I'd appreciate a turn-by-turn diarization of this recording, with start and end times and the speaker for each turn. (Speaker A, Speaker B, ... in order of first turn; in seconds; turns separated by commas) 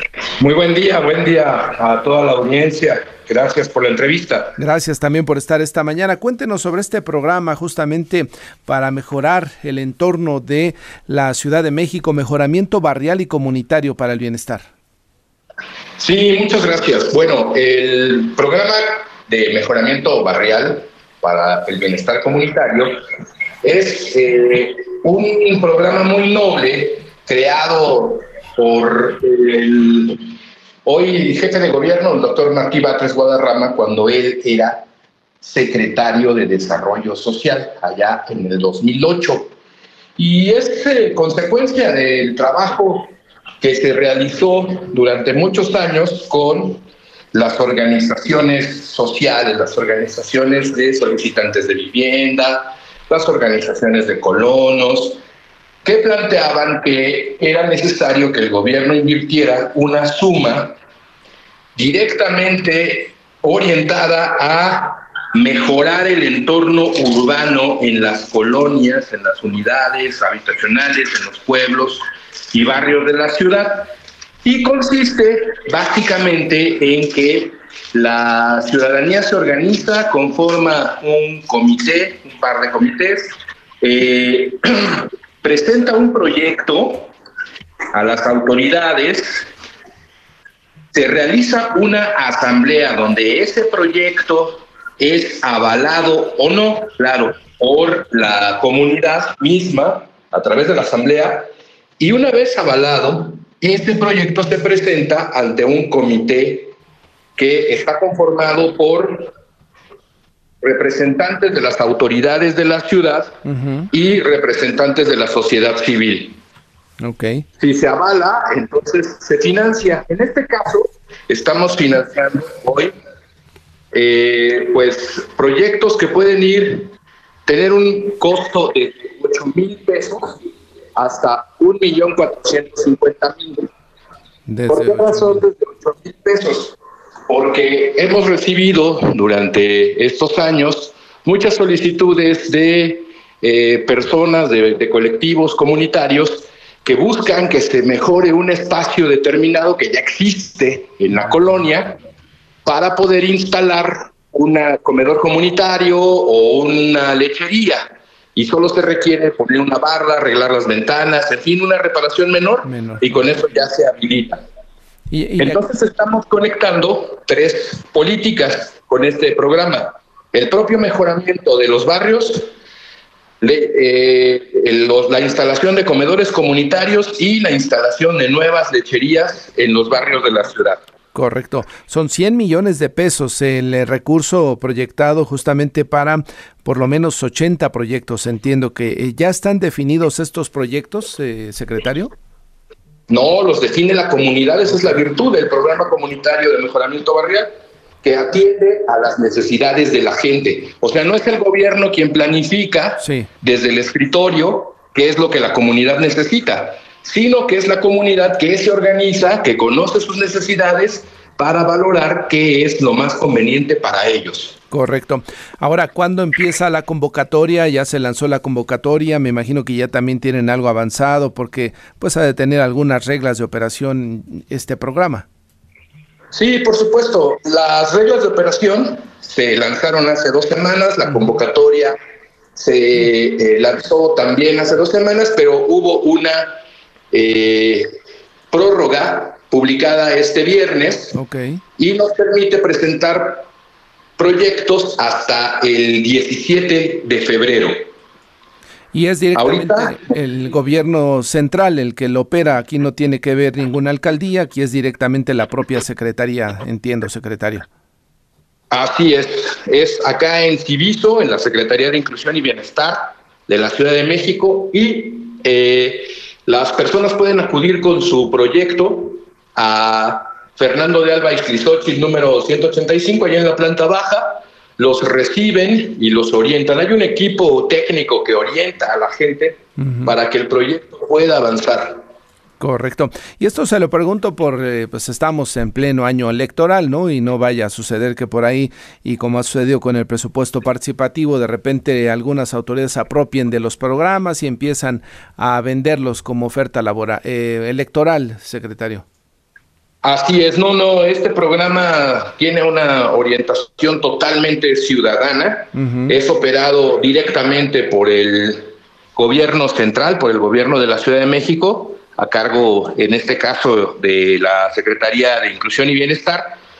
Speaker A: 0.4-4.6, Speaker B: 4.6-14.7, Speaker A: 16.0-22.9, Speaker A: 23.6-30.3, Speaker A: 30.9-34.9, Speaker A: 35.4-39.5, Speaker A: 40.2-55.2, Speaker A: 55.8-60.8, Speaker A: 61.8-73.9, Speaker A: 74.4-87.1, Speaker A: 87.9-89.5, Speaker A: 90.9-106.7, Speaker A: 107.4-109.3, Speaker A: 110.6-113.3, Speaker B: 113.5-113.9, Speaker A: 113.9-116.4, Speaker B: 117.0-117.5, Speaker A: 117.6-122.9, Speaker A: 123.9-126.9, Speaker A: 127.5-130.3, Speaker A: 131.0-133.7, Speaker B: 134.5-135.4, Speaker A: 134.7-136.8, Speaker A: 137.3-152.0, Speaker A: 152.7-164.4, Speaker B: 162.7-163.2, Speaker B: 165.1-165.6, Speaker A: 165.4-172.4, Speaker A: 173.4-180.8, Speaker B: 181.1-192.1, Speaker A: 193.1-197.5, Speaker A: 198.0-214.6, Speaker B: 203.0-203.3, Speaker B: 214.7-225.3, Speaker A: 226.3-232.0, Speaker B: 231.1-231.4, Speaker A: 232.6-236.6, Speaker A: 237.1-237.9, Speaker A: 238.5-241.2, Speaker B: 241.1-241.6, Speaker A: 241.8-243.5, Speaker A: 244.2-247.8, Speaker B: 248.9-257.7, Speaker A: 249.3-250.0, Speaker A: 258.7-282.0, Speaker B: 279.8-280.1, Speaker B: 282.6-299.1, Speaker A: 300.0-316.6, Speaker B: 305.8-306.1